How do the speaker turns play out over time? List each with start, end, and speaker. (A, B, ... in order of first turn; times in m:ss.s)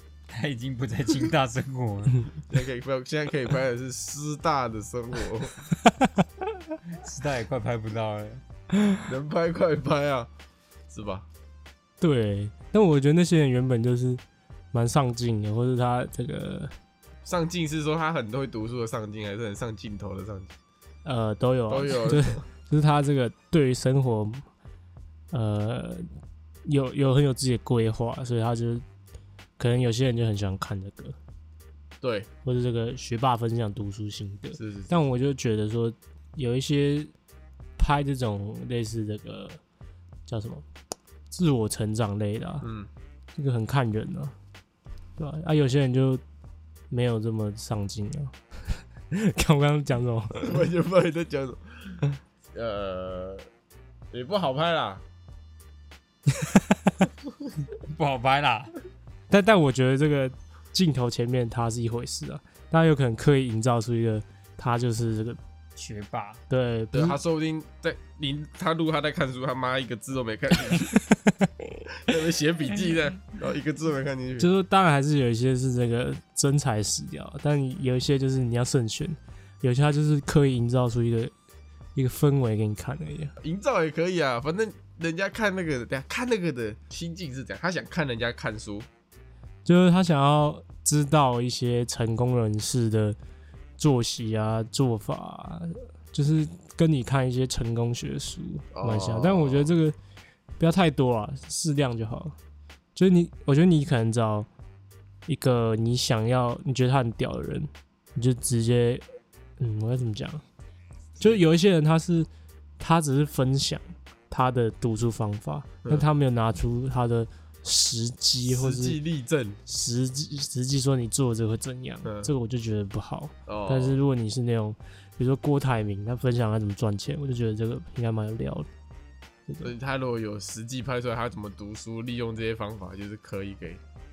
0:00.3-0:02.3 A
0:02.5-0:05.6 B
0:06.9-0:08.4 A
0:09.0-0:10.3 B
0:10.9-0:11.2 B
0:12.0-0:14.2 C
0:14.7-0:16.7 C
0:17.2-0:20.5 B
0:21.0-0:24.4 C
0:21.7-0:22.4 B
0:25.3-0:26.1 C
0:26.6-0:28.8 C
0:29.6-0:31.2 C
0:32.0-0:32.3 B
0:32.4-0:37.1 C
0:34.6-0:34.9 B
0:37.8-0:39.6 C
0:40.3-0:40.6 C
0:41.3-0:42.7 C
0:42.6-0:42.9 B
0:43.4-0:44.3 C
0:45.2-0:46.2 C
0:46.9-0:48.3 C
0:49.1-0:50.6 C
0:50.4-0:52.0 B
0:52.5-0:53.5 B
0:54.1-0:55.0 B
0:56.3-0:56.9 C
0:57.7-0:58.7 A
0:59.3-1:05.4 C
1:05.8-1:06.4 A
1:06.5-1:07.2 C
1:06.9-1:11.0 B
1:12.0-1:14.5 B
1:14.4-1:21.3 C
1:21.9-1:23.3 C
1:23.4-1:28.9 B
1:29.6-1:33.2 C
1:33.8-1:40.0 C
1:38.7-1:39.7 B
1:40.6-1:42.3 C
1:42.9-1:44.5 C
1:45.3-1:49.0 C
1:49.6-1:50.4 C
1:51.2-1:52.3 C
1:52.8-1:59.0 C
1:58.4-1:59.6 B
1:59.6-2:08.7 C
2:02.0-2:02.3 B
2:03.5-2:04.0 B
2:09.6-2:13.8 B